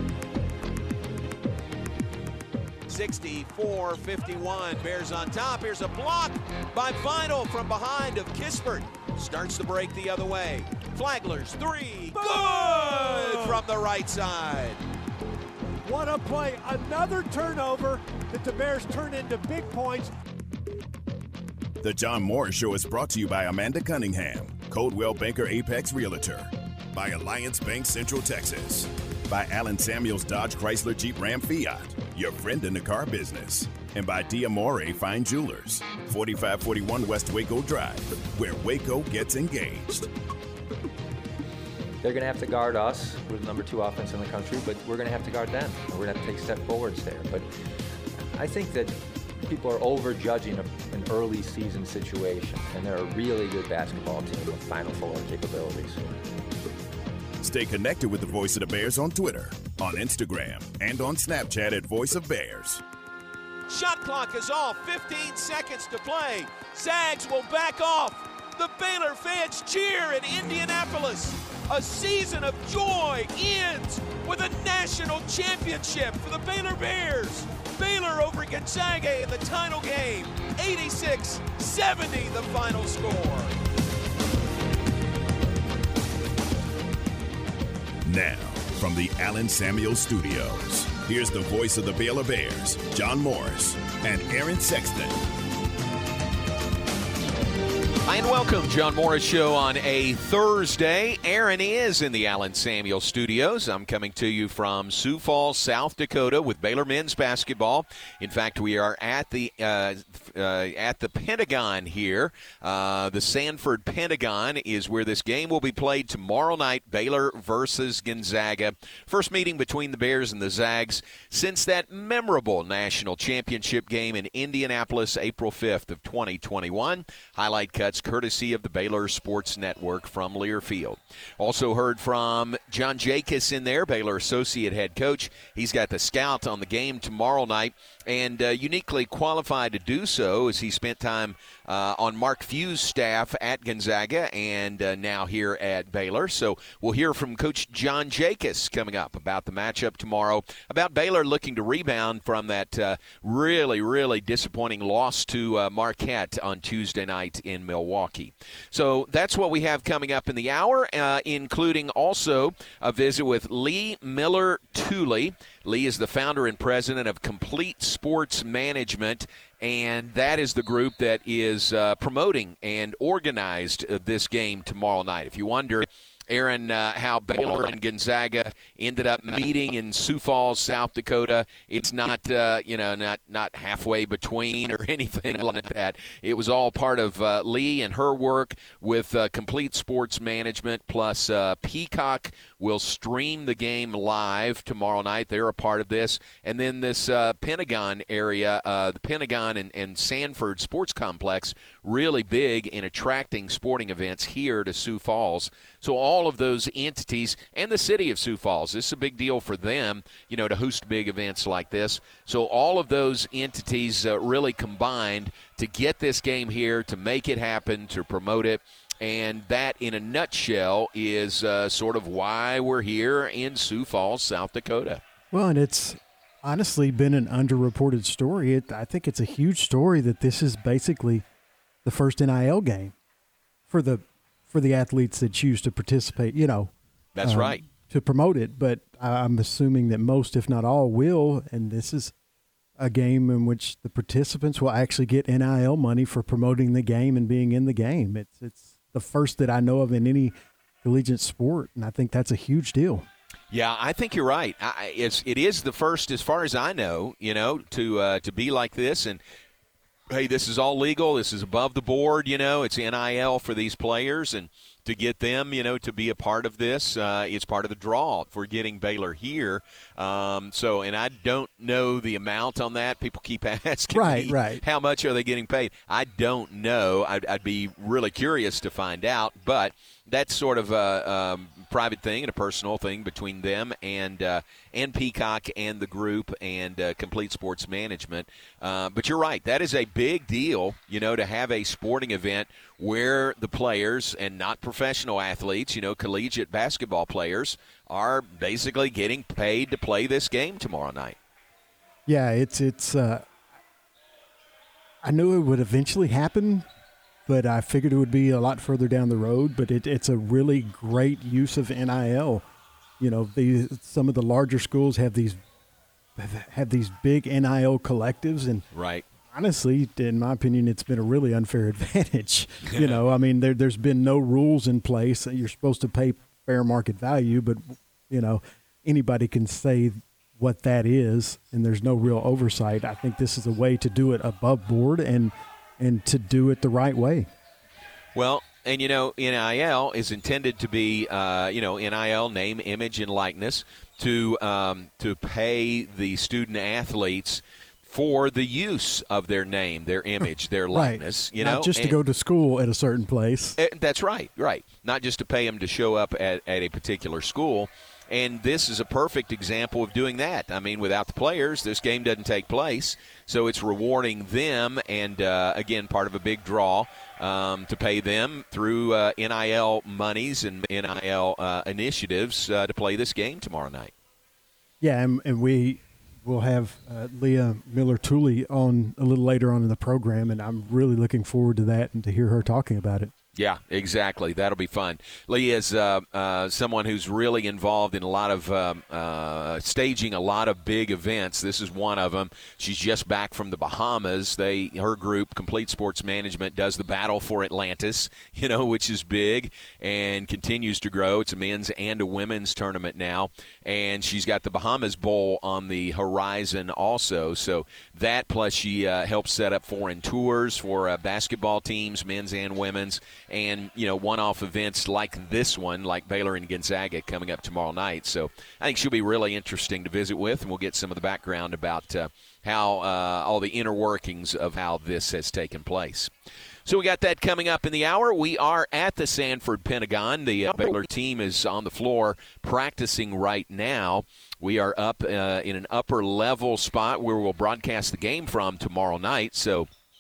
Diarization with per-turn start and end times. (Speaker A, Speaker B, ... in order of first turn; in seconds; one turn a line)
Speaker A: 2.9-14.8
Speaker B: 12.2-13.5
Speaker B: 15.9-20.1
Speaker C: 21.8-40.1
Speaker D: 42.0-47.5
Speaker D: 48.4-56.1
Speaker C: 57.4-62.8
Speaker A: 63.7-83.5
Speaker C: 88.0-95.2
Speaker A: 98.1-225.0
Speaker E: 225.3-231.2
Speaker E: 231.8-232.9
Speaker E: 233.7-236.7
Speaker A: 237.2-237.6
Speaker E: 237.2-242.1
Speaker E: 242.8-253.1
Speaker A: 253.5-259.2
Speaker A: 260.1-301.2
Speaker E: 273.9-274.6
Speaker E: 302.1-303.3
Speaker E: 305.0-306.7
Speaker E: 307.3-312.4
Speaker E: 313.0-315.4
Speaker E: 316.2-318.6
Speaker A: 318.7-319.0
Speaker E: 319.3-337.3
Speaker A: 338.1-352.0
Speaker E: 350.7-353.6
Speaker A: 353.6-373.9
Speaker E: 374.8-383.1
Speaker A: 383.4-426.1
Speaker A: 426.7-439.7